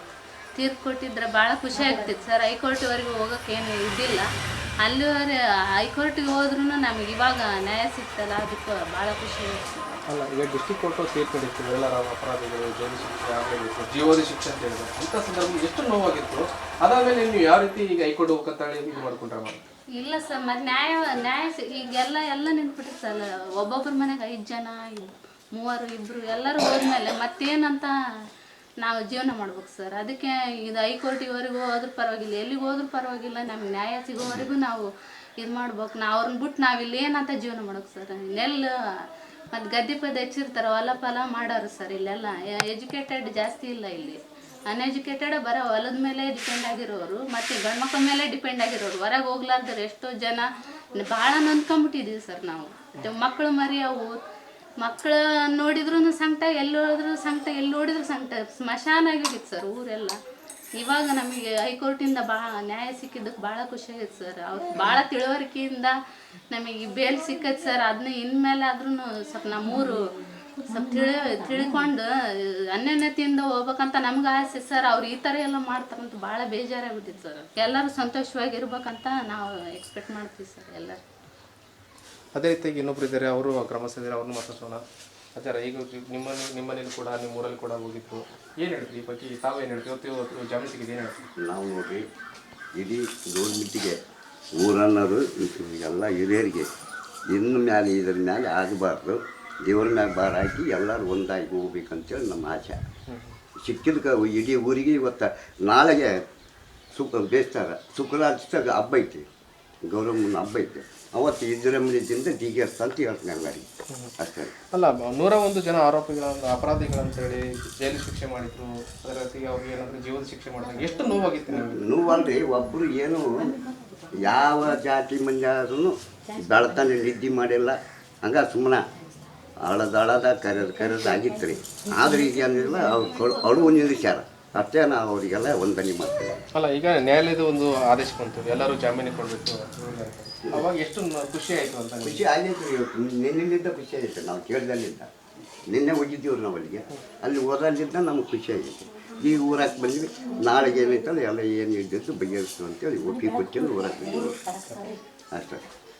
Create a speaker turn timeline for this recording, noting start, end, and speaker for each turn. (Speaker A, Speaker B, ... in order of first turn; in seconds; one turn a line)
Speaker A: 0.6-4.3
Speaker A: 4.8-10.0
Speaker B: 10.1-19.6
Speaker A: 20.0-27.9
Speaker A: 28.8-34.9
Speaker A: 35.4-38.7
Speaker A: 39.5-54.2
Speaker A: 54.8-60.2
Speaker A: 60.8-65.9
Speaker A: 66.5-72.1
Speaker A: 72.7-81.0
Speaker B: 82.3-84.8
Speaker B: 85.3-91.3
Speaker C: 91.4-92.0
Speaker C: 92.7-94.0
Speaker C: 94.5-96.7
Speaker C: 97.3-102.8
Speaker B: 103.1-103.4
Speaker C: 103.6-106.2
Speaker C: 106.9-109.2
Speaker C: 109.8-113.7
Speaker C: 114.2-114.5
Speaker B: 114.7-121.8
Speaker C: 121.7-123.6
Speaker C: 124.1-128.8
Speaker C: 129.6-136.4
Speaker B: 136.5-142.2
Speaker C: 142.0-145.1
Speaker C: 145.7-154.4
Speaker C: 155.3-155.6